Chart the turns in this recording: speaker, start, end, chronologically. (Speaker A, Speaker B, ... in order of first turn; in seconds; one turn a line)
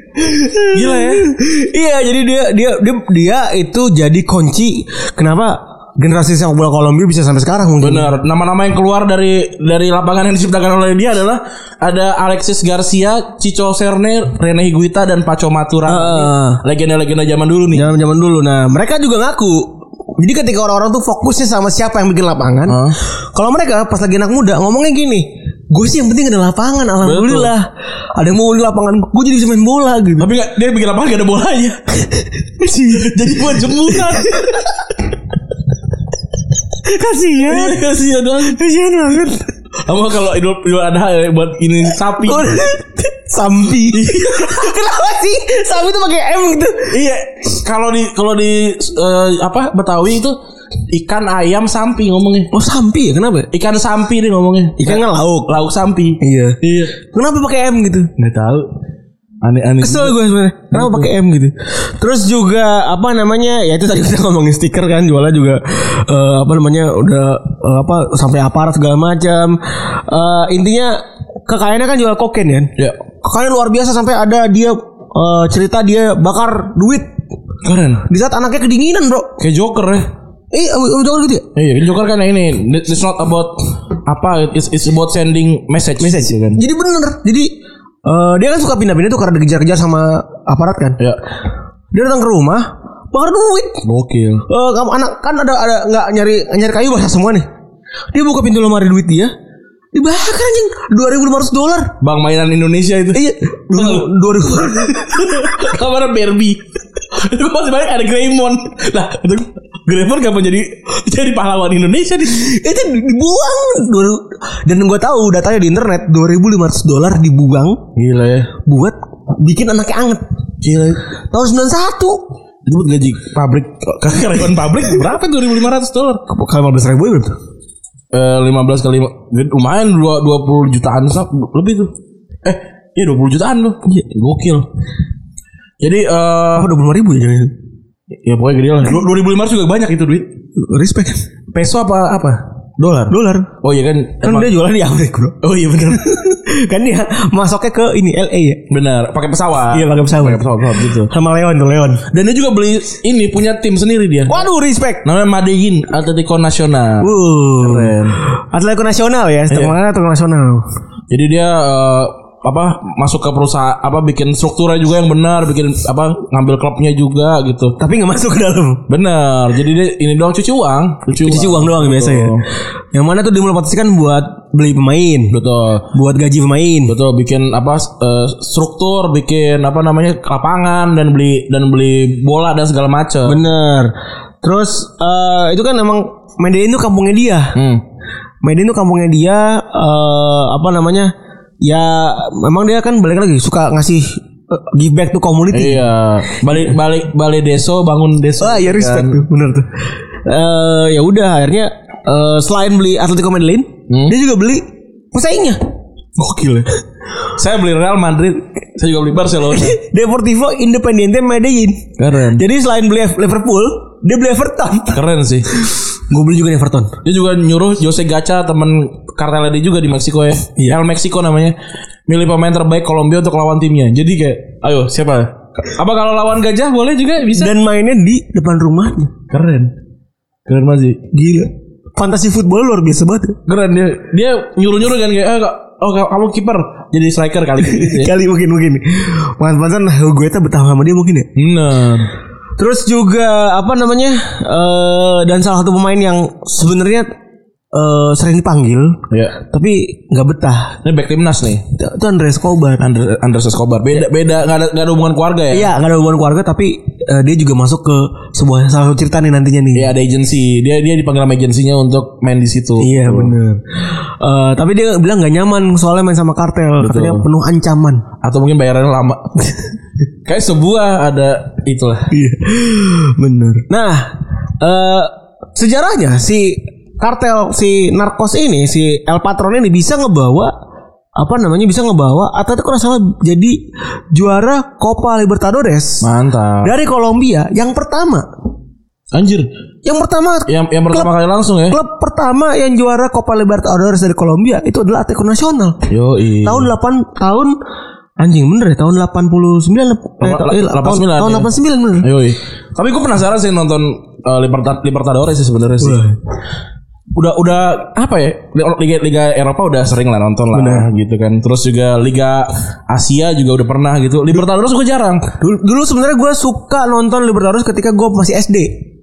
Speaker A: 0.1-8.1
Speaker B: 0.7-1.3
Speaker B: 7.8-17.8
Speaker A: 15.8-16.6
Speaker A: 17.7-22.8
Speaker B: 22.7-22.9
Speaker A: 23.3-30.3
Speaker B: 27.0-27.5
Speaker B: 30.2-31.9
Speaker A: 32.6-34.6
Speaker B: 32.9-34.7
Speaker A: 36.8-37.8
Speaker B: 37.4-38.6
Speaker A: 38.4-39.5
Speaker B: 39.8-42.6
Speaker A: 42.2-47.0
Speaker B: 43.9-44.6
Speaker B: 46.9-50.4
Speaker B: 50.9-52.5
Speaker A: 52.5-53.5
Speaker B: 53.5-56.9
Speaker A: 54.8-55.5
Speaker A: 56.2-58.1
Speaker B: 58.2-58.7
Speaker B: 59.4-60.2
Speaker A: 59.8-77.1
Speaker B: 60.7-61.1
Speaker B: 77.6-78.0
Speaker A: 78.0-79.4
Speaker B: 79.4-80.1
Speaker A: 80.5-81.5
Speaker B: 81.5-86.6
Speaker A: 86.0-87.5
Speaker A: 88.0-91.0
Speaker A: 91.9-93.8
Speaker B: 93.8-94.4
Speaker A: 94.5-97.5
Speaker A: 98.1-99.3
Speaker A: 99.9-101.9
Speaker B: 102.0-104.1
Speaker A: 103.1-105.5
Speaker B: 104.6-112.5
Speaker A: 112.4-117.8
Speaker B: 118.0-118.5
Speaker A: 118.6-120.2
Speaker B: 120.6-121.0
Speaker A: 121.3-122.2
Speaker B: 122.6-126.2
Speaker A: 126.3-127.3
Speaker B: 128.1-131.9
Speaker B: 132.4-134.7
Speaker B: 135.8-136.7
Speaker A: 136.5-137.5
Speaker B: 138.2-140.3
Speaker A: 140.6-141.2
Speaker B: 141.5-144.6
Speaker A: 143.1-143.5
Speaker A: 144.2-148.6
Speaker B: 145.4-146.1
Speaker B: 148.7-151.1
Speaker A: 149.7-152.0
Speaker B: 152.1-154.5
Speaker A: 154.3-155.0
Speaker B: 155.0-158.2
Speaker A: 157.0-160.6
Speaker B: 161.1-167.7
Speaker A: 167.8-168.8
Speaker B: 168.9-172.4
Speaker A: 171.2-172.4
Speaker A: 172.9-175.3
Speaker B: 175.3-175.8
Speaker A: 175.9-176.9
Speaker B: 176.9-183.4
Speaker A: 183.2-187.6
Speaker B: 187.5-187.8
Speaker A: 188.4-191.1
Speaker A: 191.6-195.9
Speaker B: 195.5-199.2
Speaker A: 198.4-199.7
Speaker A: 200.2-205.6
Speaker B: 203.9-204.1
Speaker B: 206.2-206.7
Speaker B: 207.3-209.8
Speaker A: 209.5-215.0
Speaker B: 212.0-212.4
Speaker B: 214.9-215.5
Speaker A: 216.1-216.9
Speaker B: 217.0-221.5
Speaker B: 222.1-227.6
Speaker A: 227.3-229.1
Speaker B: 229.3-229.7
Speaker B: 230.4-231.0
Speaker A: 231.1-233.4
Speaker B: 233.5-238.1
Speaker A: 237.6-241.3
Speaker B: 241.3-242.1
Speaker A: 242.6-247.1
Speaker A: 247.7-250.8
Speaker B: 249.1-249.3
Speaker B: 250.8-251.6
Speaker A: 251.7-252.8
Speaker B: 252.8-255.7
Speaker A: 255.5-259.9
Speaker B: 259.7-263.3
Speaker A: 262.8-268.0
Speaker B: 266.8-267.2
Speaker B: 268.2-269.3
Speaker B: 270.2-272.1
Speaker A: 272.1-280.5
Speaker A: 281.1-283.6
Speaker A: 284.1-286.1
Speaker B: 286.0-286.7
Speaker A: 286.6-288.3
Speaker B: 289.1-289.5
Speaker A: 289.8-291.1
Speaker B: 290.5-291.8
Speaker A: 291.7-295.8
Speaker B: 295.9-296.7
Speaker A: 296.4-297.6
Speaker A: 298.2-302.1
Speaker B: 300.2-306.0
Speaker A: 305.8-306.1
Speaker B: 307.1-315.3
Speaker A: 310.5-310.9
Speaker A: 315.3-318.8